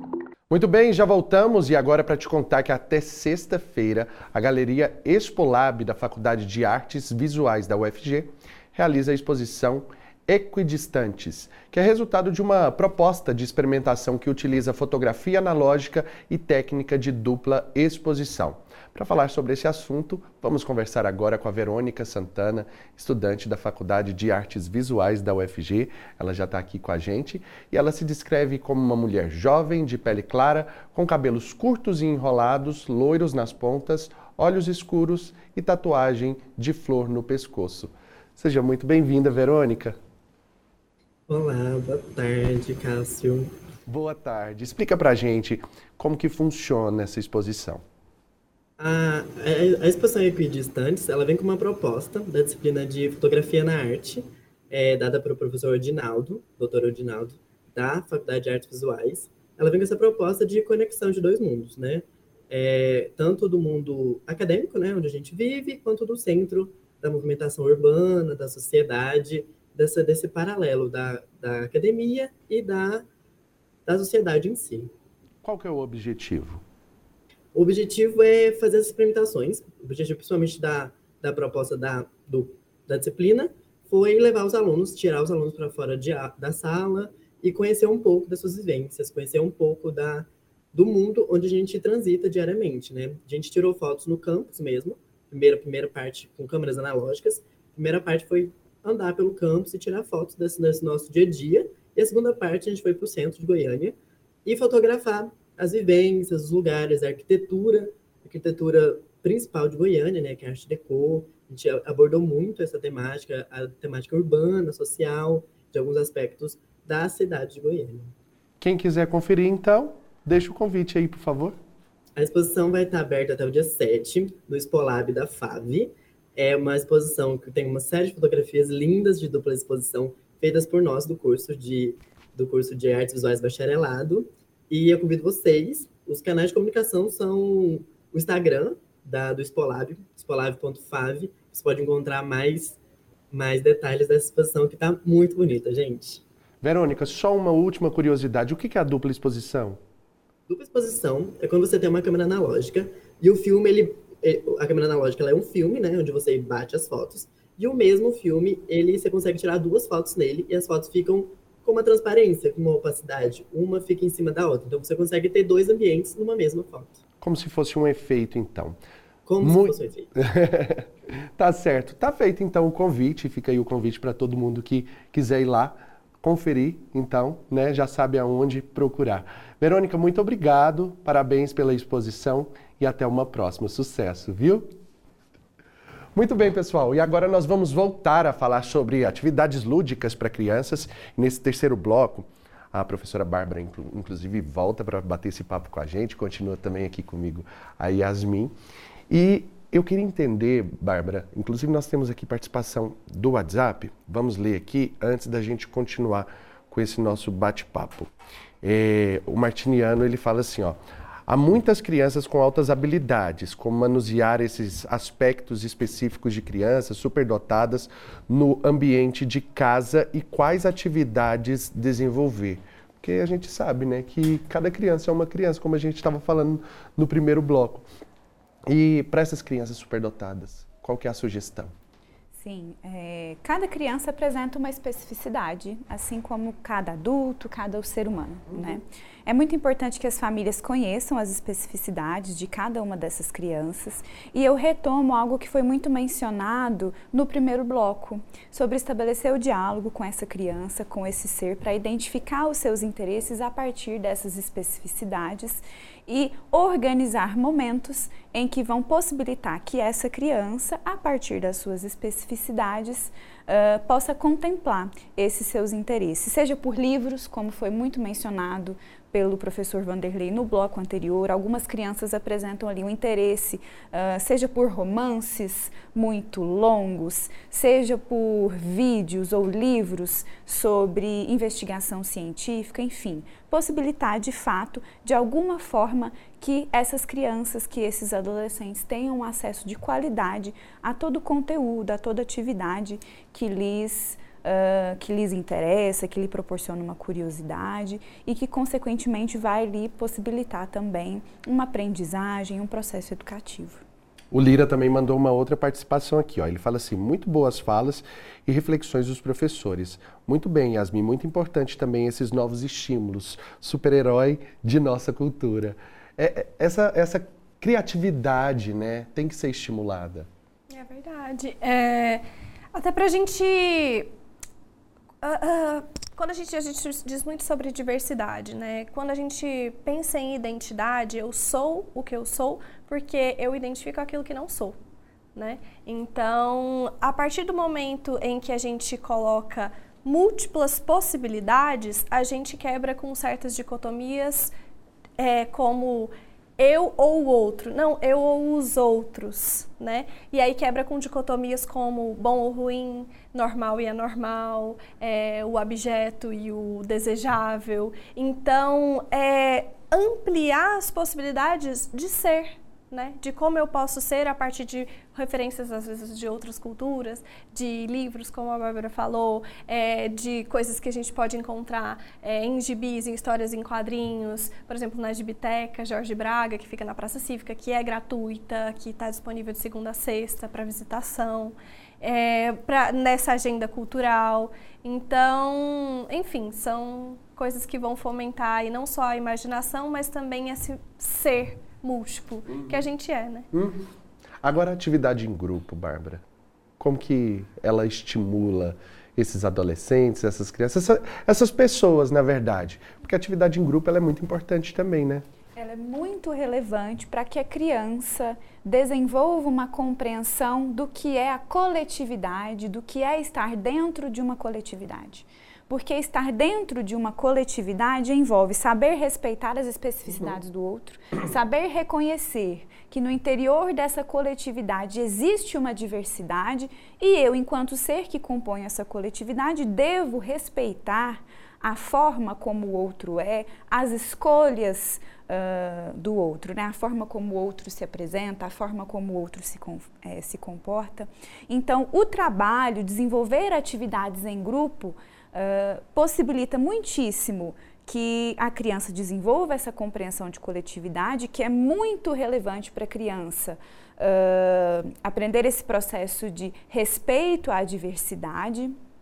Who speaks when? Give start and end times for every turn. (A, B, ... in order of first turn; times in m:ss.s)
0:00.5-0:40.0 A
0:41.3-0:43.5 B
0:43.9-0:47.8 A
0:48.8-1:13.1 B
1:13.9-1:14.9 B
1:15.4-1:16.6 A
1:17.5-1:58.1 B
1:58.6-2:01.6 A
2:02.2-2:22.8 B
2:23.3-2:26.2 B
2:26.6-2:29.8 A
2:30.5-2:47.0 B
2:47.2-2:48.8 A
2:49.2-2:50.1 B
2:49.4-3:04.7 A
3:06.2-3:18.5 A
3:19.1-3:28.1 A
3:28.6-3:47.9 A
3:48.7-3:51.7 A
3:52.4-5:03.8 C
3:58.5-3:58.8 A
5:04.3-5:20.3 A
5:20.7-5:24.1 D
5:25.2-5:34.8 D
5:35.4-5:44.5 D
5:45.2-6:33.5 D
6:32.5-6:32.8 A
6:33.5-6:33.9 A
6:34.4-6:36.2 A
6:36.8-6:45.2 A
6:45.6-7:38.8 C